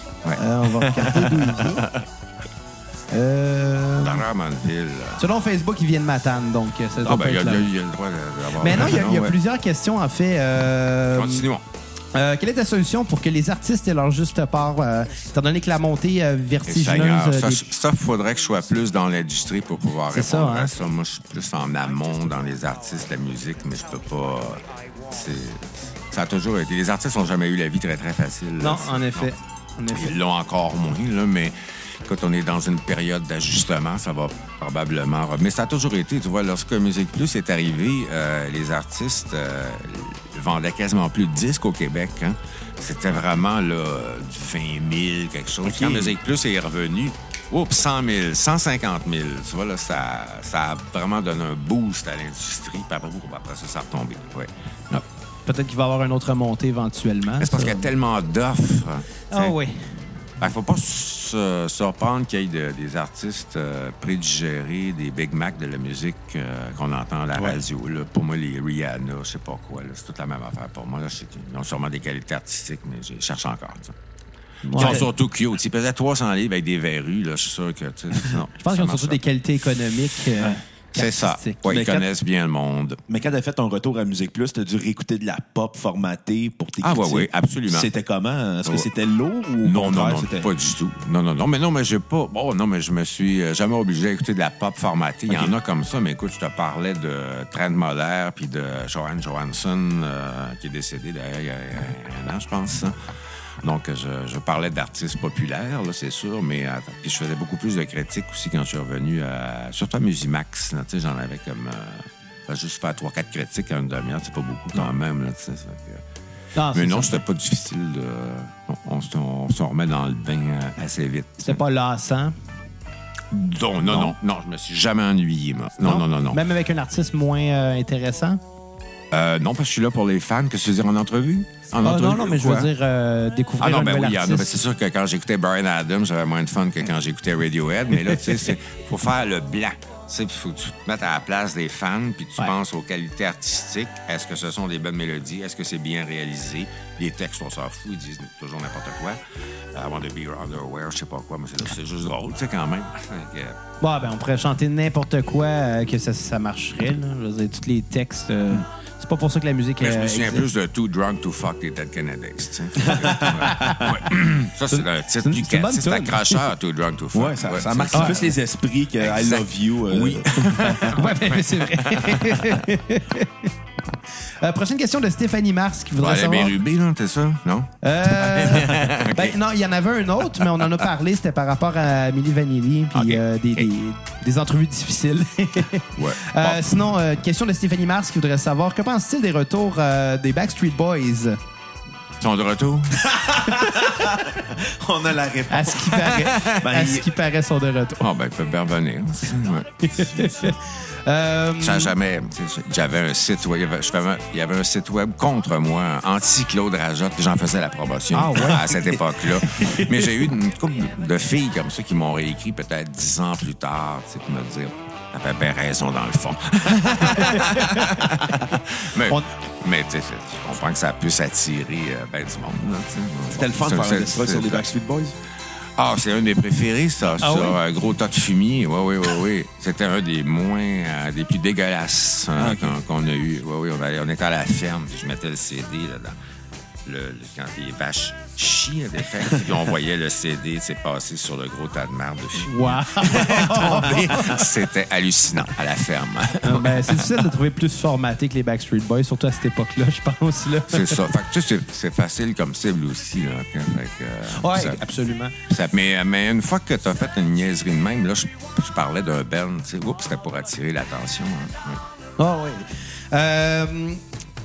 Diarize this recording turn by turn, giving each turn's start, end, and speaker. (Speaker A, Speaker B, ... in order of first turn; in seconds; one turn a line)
Speaker A: 0.2-2.0
Speaker B: 0.4-1.9
Speaker B: 3.1-4.2
Speaker A: 4.0-5.2
Speaker B: 5.2-7.7
Speaker A: 7.0-9.3
Speaker B: 8.6-11.5
Speaker A: 11.1-11.6
Speaker B: 12.1-17.7
Speaker A: 16.6-29.3
Speaker B: 20.1-20.7
Speaker B: 28.6-30.1
Speaker A: 29.9-55.0
Speaker B: 45.7-46.1
Speaker B: 55.5-57.9
Speaker A: 57.4-59.5
Speaker B: 59.3-60.0
Speaker A: 60.4-74.0
Speaker B: 74.6-75.0
Speaker A: 74.7-79.2
Speaker B: 78.6-81.7
Speaker A: 80.9-83.0
Speaker C: 81.7-82.1
Speaker C: 83.1-90.5
Speaker A: 86.8-87.9
Speaker A: 89.6-103.0
Speaker A: 103.6-116.0
Speaker B: 116.5-117.2
Speaker A: 116.7-121.6
Speaker B: 121.4-122.3
Speaker A: 123.3-126.4
Speaker B: 125.8-128.4
Speaker A: 129.1-132.7
Speaker B: 131.8-134.6
Speaker A: 133.6-149.2
Speaker A: 149.7-153.6
Speaker B: 153.8-160.4
Speaker A: 159.8-168.3
Speaker C: 162.8-164.0
Speaker B: 163.1-163.9
Speaker B: 164.7-166.4
Speaker C: 167.1-170.6
Speaker B: 167.9-168.3
Speaker A: 169.0-172.6
Speaker B: 170.7-173.5
Speaker B: 174.2-176.6
Speaker A: 176.0-179.4
Speaker B: 177.8-191.4
Speaker A: 182.9-183.7
Speaker A: 185.9-186.8
Speaker A: 192.2-193.1
Speaker C: 193.0-197.1
Speaker B: 193.6-194.1
Speaker B: 195.5-198.1
Speaker A: 198.0-200.5
Speaker B: 199.8-201.9
Speaker A: 201.6-224.6
Speaker B: 208.1-210.1
Speaker B: 217.1-218.5
Speaker C: 223.3-225.2
Speaker A: 225.8-236.2
Speaker B: 227.2-227.6
Speaker C: 232.4-232.8
Speaker A: 236.8-247.3
Speaker B: 242.4-244.4
Speaker B: 246.4-251.0
Speaker A: 250.7-254.8
Speaker B: 254.3-255.3
Speaker A: 255.5-261.8
Speaker B: 262.2-264.0